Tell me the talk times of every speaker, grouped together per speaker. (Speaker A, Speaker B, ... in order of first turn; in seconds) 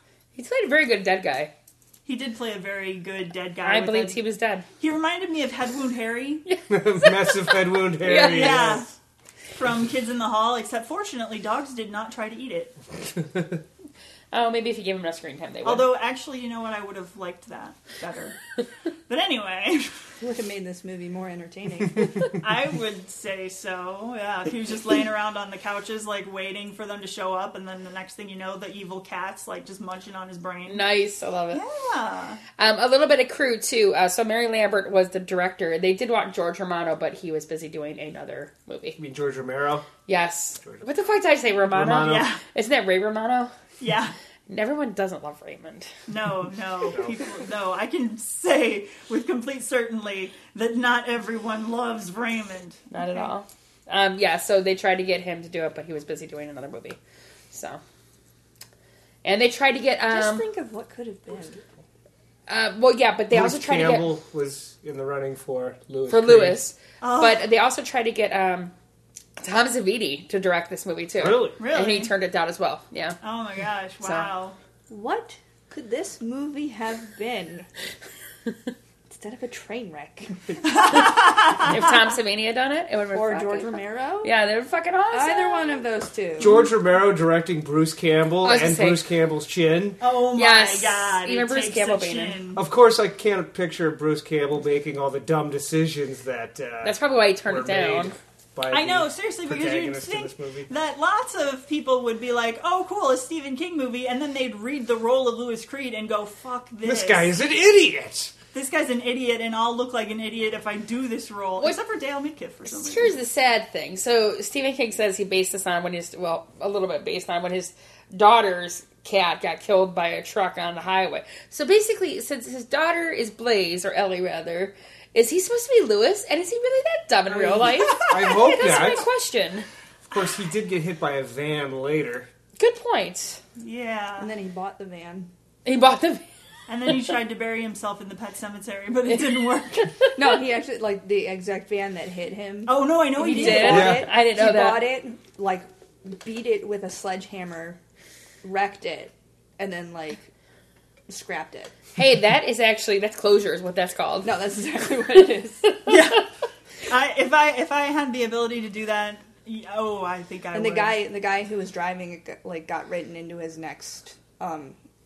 Speaker A: 0.3-1.5, 3.6-4.6, 6.4-8.8, 14.3-15.9, 30.7-31.6, 32.6-39.0, 40.1-43.5, 44.5-45.9, 52.9-57.0, 57.5-57.8, 59.2-60.5, 62.5-64.1, 66.1-68.7, 69.4-73.2, 74.0-74.3, 81.6-85.8, 88.4-89.0, 90.3-92.4, 96.8-98.1, 112.7-129.7, 132.6-133.4, 135.6-136.2, 139.7-140.2, 143.2-144.8, 151.9-154.4
Speaker B: 2.0-4.2, 4.8-6.4, 8.2-8.9, 9.5-12.8, 15.6-19.9, 22.4-30.9, 31.5-32.4, 42.0-42.4, 43.8-44.1, 46.1-52.8, 67.0-67.4, 71.6-72.1, 73.2-74.5, 80.7-81.7, 90.0-92.6, 98.7-107.3, 108.5-113.1, 133.6-134.3, 136.7-139.9, 142.7-144.0, 155.8-156.3, 156.9-161.0
Speaker C: 6.7-8.9, 39.0-39.9, 41.7-42.3, 46.9-47.2, 63.3-66.6, 71.2-71.6, 86.4-90.0, 92.5-100.7, 106.8-108.3, 127.3-129.1, 130.1-132.3, 143.6-144.1
Speaker D: 20.2-22.3, 60.1-61.6, 74.9-77.7, 79.1-80.5, 83.1-84.3, 85.1-86.7, 134.2-135.3, 140.1-147.8, 148.4-150.2, 151.1-151.7, 154.2-155.8, 160.5-164.8